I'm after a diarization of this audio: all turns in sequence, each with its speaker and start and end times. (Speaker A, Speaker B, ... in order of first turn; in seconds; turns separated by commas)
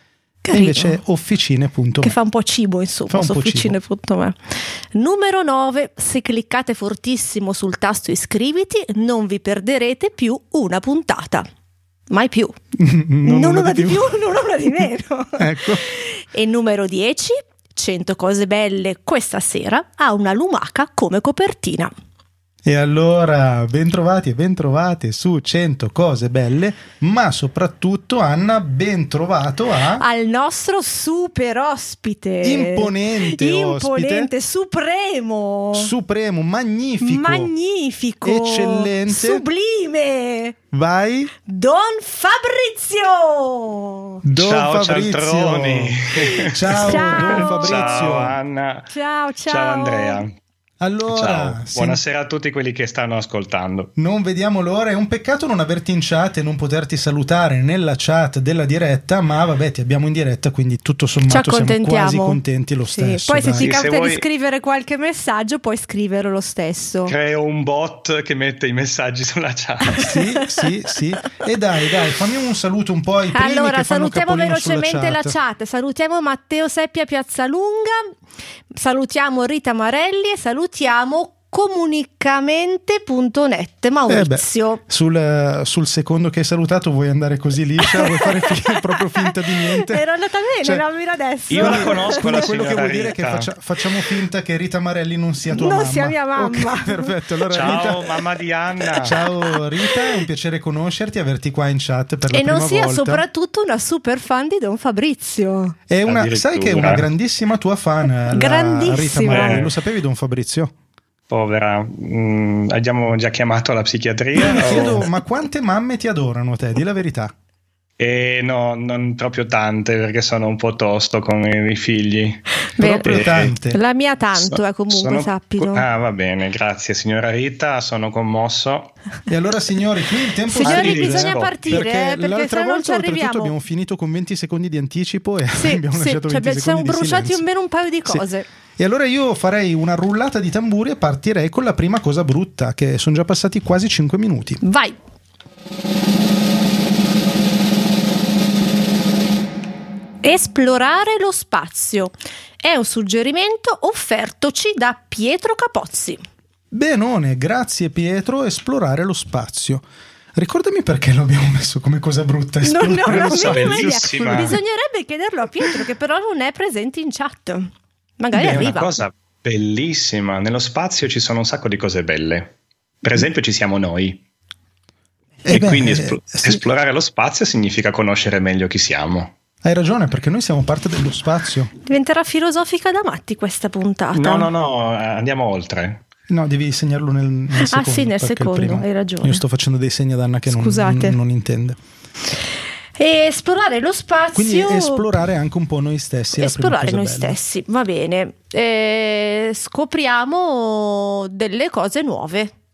Speaker A: 0.4-1.0, Speaker B: 0.5-2.1, Speaker A: 2.0-11.5, Speaker B: 3.1-3.8, Speaker A: 12.1-12.6, Speaker B: 12.8-14.2, Speaker A: 13.2-21.9, Speaker B: 15.4-15.8, Speaker B: 22.6-30.0, Speaker A: 30.0-35.9, Speaker B: 32.4-34.3, Speaker B: 35.7-37.5, Speaker A: 37.0-40.6, Speaker B: 38.2-39.5, Speaker B: 40.7-41.3, Speaker A: 41.5-44.2, Speaker B: 44.2-48.4, Speaker C: 44.4-48.9, Speaker A: 46.7-48.1, Speaker A: 48.9-50.2, Speaker C: 49.5-50.3, Speaker B: 50.8-52.0, Speaker C: 51.1-53.9, Speaker B: 54.0-63.8, Speaker A: 61.3-67.2, Speaker C: 63.6-64.2, Speaker C: 67.1-70.0, Speaker A: 69.9-70.7, Speaker B: 70.0-75.3, Speaker A: 73.3-78.1, Speaker A: 78.8-84.8, Speaker B: 84.1-90.0, Speaker A: 87.8-92.5, Speaker C: 91.5-93.5, Speaker B: 91.6-98.1, Speaker A: 95.5-97.1, Speaker C: 97.5-99.2, Speaker B: 99.0-103.2, Speaker A: 102.3-105.8, Speaker B: 105.9-110.7, Speaker C: 106.1-107.1, Speaker A: 108.3-109.6, Speaker C: 109.3-109.7, Speaker C: 111.3-115.1, Speaker B: 114.4-117.3, Speaker C: 118.0-122.5, Speaker A: 122.8-125.8, Speaker B: 122.8-123.8, Speaker C: 123.0-123.5, Speaker C: 124.3-128.9, Speaker B: 129.3-137.4, Speaker A: 130.5-133.5, Speaker C: 130.6-131.8, Speaker A: 135.5-138.5, Speaker B: 138.8-144.6, Speaker A: 144.6-145.0, Speaker A: 150.2-156.2, Speaker B: 156.7-164.6, Speaker A: 162.6-168.9, Speaker C: 163.1-164.6, Speaker C: 168.3-172.5, Speaker C: 173.0-174.2, Speaker B: 175.5-176.6, Speaker C: 175.5-179.3, Speaker B: 179.6-181.7, Speaker A: 181.8-184.5, Speaker C: 184.2-186.0, Speaker B: 186.3-191.8, Speaker A: 187.6-189.4, Speaker A: 190.5-191.2, Speaker A: 193.0-195.1, Speaker B: 194.3-197.4, Speaker A: 196.4-202.5